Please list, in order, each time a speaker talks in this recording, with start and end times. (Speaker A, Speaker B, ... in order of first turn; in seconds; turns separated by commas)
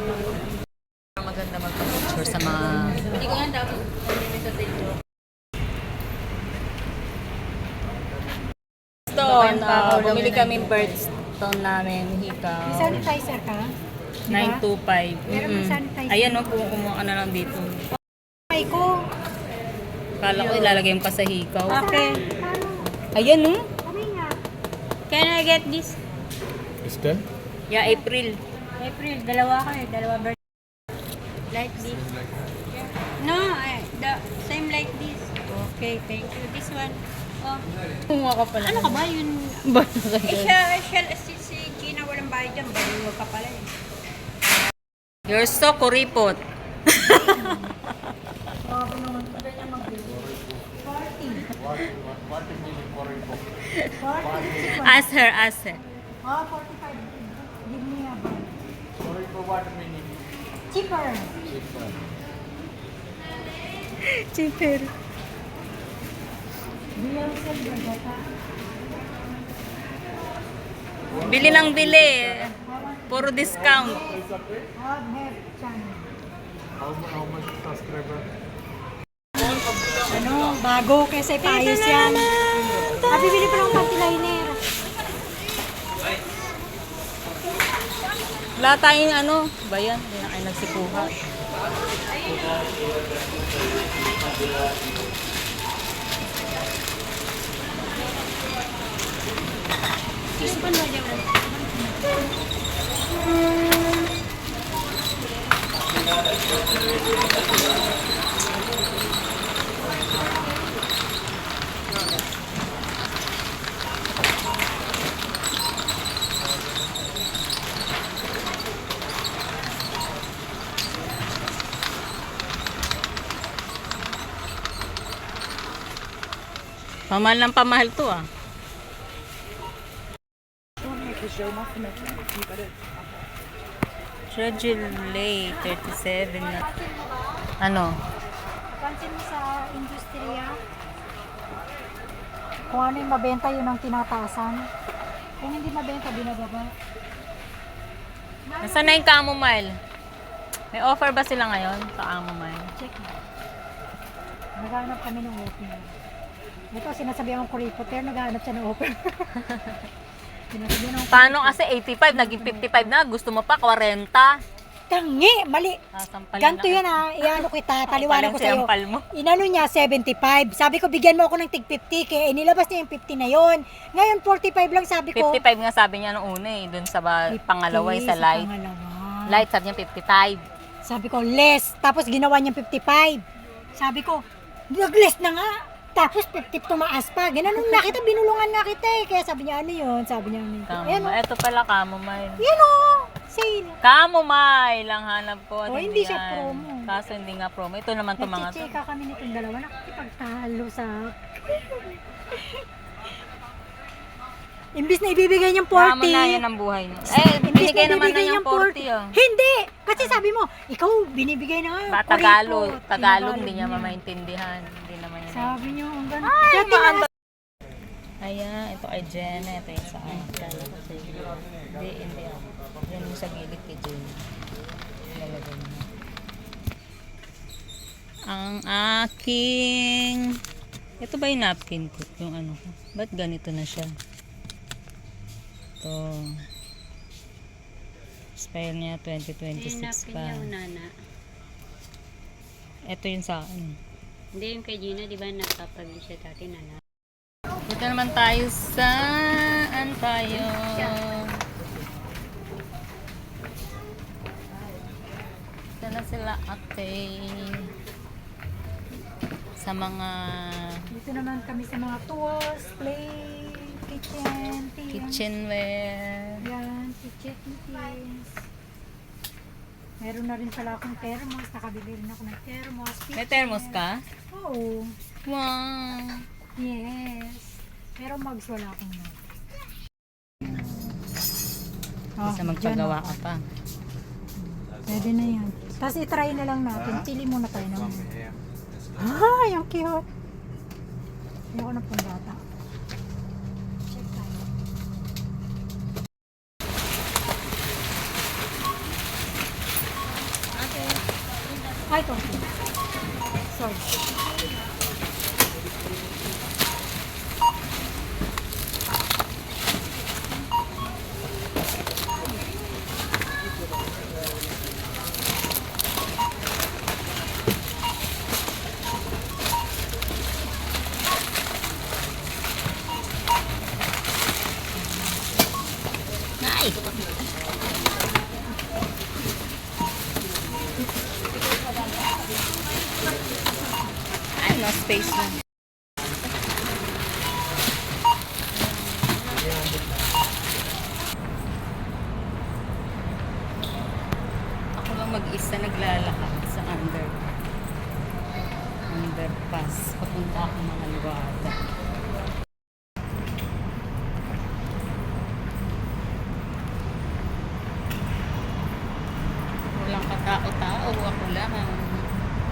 Speaker A: 1.2-3.6, Speaker B: 9.1-11.1, Speaker A: 9.1-13.1, Speaker C: 12.7-13.7, Speaker C: 14.3-14.6, Speaker A: 14.3-17.9, Speaker C: 15.3-16.6, Speaker C: 18.5-19.1, Speaker A: 20.2-21.9, Speaker C: 21.7-22.9, Speaker B: 21.8-22.2, Speaker A: 23.1-23.7, Speaker C: 23.8-24.4, Speaker B: 25.1-26.0, Speaker D: 26.9-27.2, Speaker A: 27.7-28.4, Speaker B: 28.8-30.3, Speaker B: 31.5-32.1, Speaker B: 32.7-37.6, Speaker A: 38.1-39.1, Speaker B: 38.6-39.7, Speaker A: 39.6-40.6, Speaker B: 40.2-43.7, Speaker A: 45.3-47.5, Speaker C: 47.1-47.8, Speaker C: 48.6-51.5, Speaker D: 52.1-53.4, Speaker A: 53.7-55.8, Speaker C: 54.0-55.1, Speaker C: 56.2-58.5, Speaker D: 59.2-60.1, Speaker C: 60.7-61.4, Speaker A: 64.0-64.9, Speaker C: 67.0-68.2, Speaker A: 71.2-72.5, Speaker C: 72.7-76.1, Speaker A: 73.1-74.2, Speaker D: 77.0-78.2, Speaker C: 80.1-82.3, Speaker A: 81.5-82.1, Speaker C: 83.1-84.6, Speaker A: 88.6-91.2, Speaker C: 100.5-101.9, Speaker B: 100.5-101.0, Speaker A: 127.1-128.2, Speaker A: 134.3-136.6, Speaker C: 136.5-137.4, Speaker A: 137.6-138.0, Speaker C: 138.7-140.6, Speaker C: 142.7-144.7, Speaker C: 145.4-146.7, Speaker C: 148.5-149.1, Speaker A: 148.6-149.8, Speaker A: 150.7-152.7, Speaker C: 152.8-153.2, Speaker C: 154.6-156.0, Speaker C: 156.7-159.3, Speaker A: 159.4-159.8, Speaker C: 160.5-161.6, Speaker A: 161.1-164.4, Speaker C: 162.1-162.9, Speaker C: 164.9-165.8, Speaker A: 165.9-169.1, Speaker C: 166.4-175.4, Speaker A: 175.2-178.5, Speaker C: 177.3-179.4, Speaker A: 179.3-180.4, Speaker C: 180.8-183.2, Speaker C: 183.8-191.2, Speaker A: 187.5-187.9, Speaker A: 190.7-192.4, Speaker C: 192.4-193.8, Speaker A: 193.8-198.7, Speaker C: 195.7-196.9, Speaker C: 198.2-202.6, Speaker C: 204.8-206.4, Speaker A: 205.7-209.2, Speaker C: 207.2-214.0, Speaker A: 210.0-210.2, Speaker A: 211.9-217.1, Speaker C: 215.3-217.1, Speaker A: 218.2-220.5, Speaker B: 220.2-221.3, Speaker A: 221.6-224.2, Speaker A: 225.1-225.9, Speaker A: 228.3-230.3, Speaker A: 231.0-233.9, Speaker A: 235.8-236.4, Speaker A: 238.4-240.5, Speaker B: 239.6-240.9, Speaker A: 242.9-243.8, Speaker B: 244.3-246.8, Speaker A: 247.7-251.4, Speaker A: 255.8-257.7, Speaker A: 259.6-260.9, Speaker C: 260.9-265.2, Speaker A: 264.9-266.5, Speaker C: 266.4-268.4, Speaker C: 270.0-274.9, Speaker A: 273.1-274.0, Speaker A: 275.3-276.3, Speaker C: 276.6-279.2, Speaker C: 282.2-283.2, Speaker A: 282.2-283.4, Speaker C: 284.4-288.2, Speaker C: 289.0-290.1, Speaker C: 291.5-292.4, Speaker C: 294.0-294.3, Speaker C: 301.9-302.5, Speaker C: 303.5-303.9, Speaker A: 326.4-326.8, Speaker A: 334.4-335.4, Speaker A: 344.8-347.3, Speaker A: 348.9-351.6, Speaker A: 359.8-362.1